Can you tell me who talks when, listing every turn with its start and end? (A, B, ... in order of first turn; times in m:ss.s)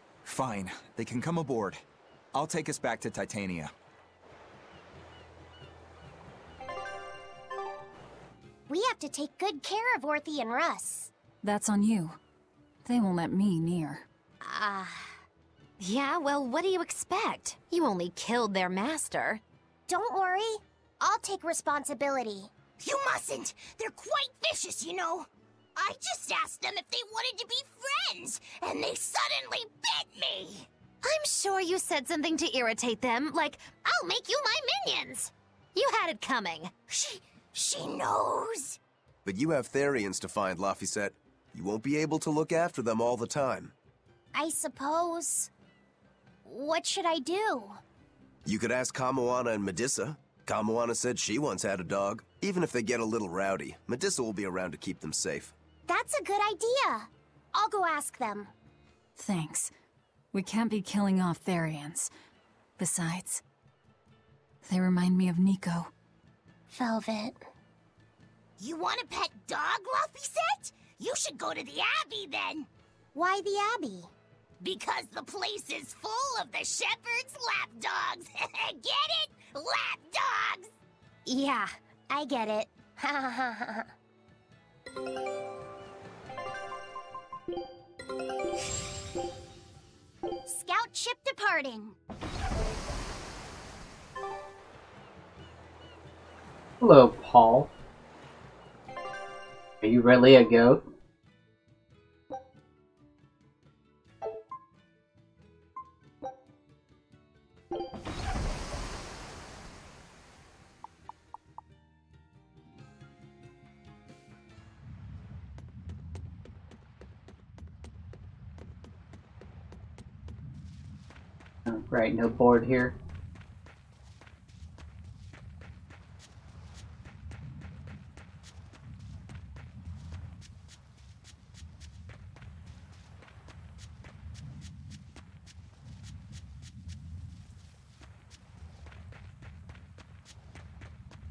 0:00.2-0:03.7 A
0:08.7-0:11.1 B
0:11.4-0:12.2 C
0:12.8-0:14.0 C
0:14.4-0:15.1 B
0:15.8-0:19.4 D
0:19.9-0:22.5 B
0:22.8-0:30.7 E
0:31.0-0:33.7 D
0:33.8-0:35.3 E
0:35.7-0:36.7 D
0:36.9-0:38.8 E
0:39.2-0:43.7 F
0:44.3-0:45.5 B
0:46.4-0:47.8 B
0:48.4-0:55.5 F
0:55.9-0:58.5 B
0:59.2-0:59.7 C
1:00.3-1:02.1 C
1:02.8-1:03.4 C
1:04.6-1:05.9 C
1:06.7-1:07.4 B
1:08.6-1:12.7 E
1:13.1-1:14.1 B
1:14.6-1:20.7 E
1:21.2-1:23.9 B
1:30.5-1:31.9 B
1:36.8-1:37.7 G
1:39.8-1:40.8 G
2:01.6-2:02.9 G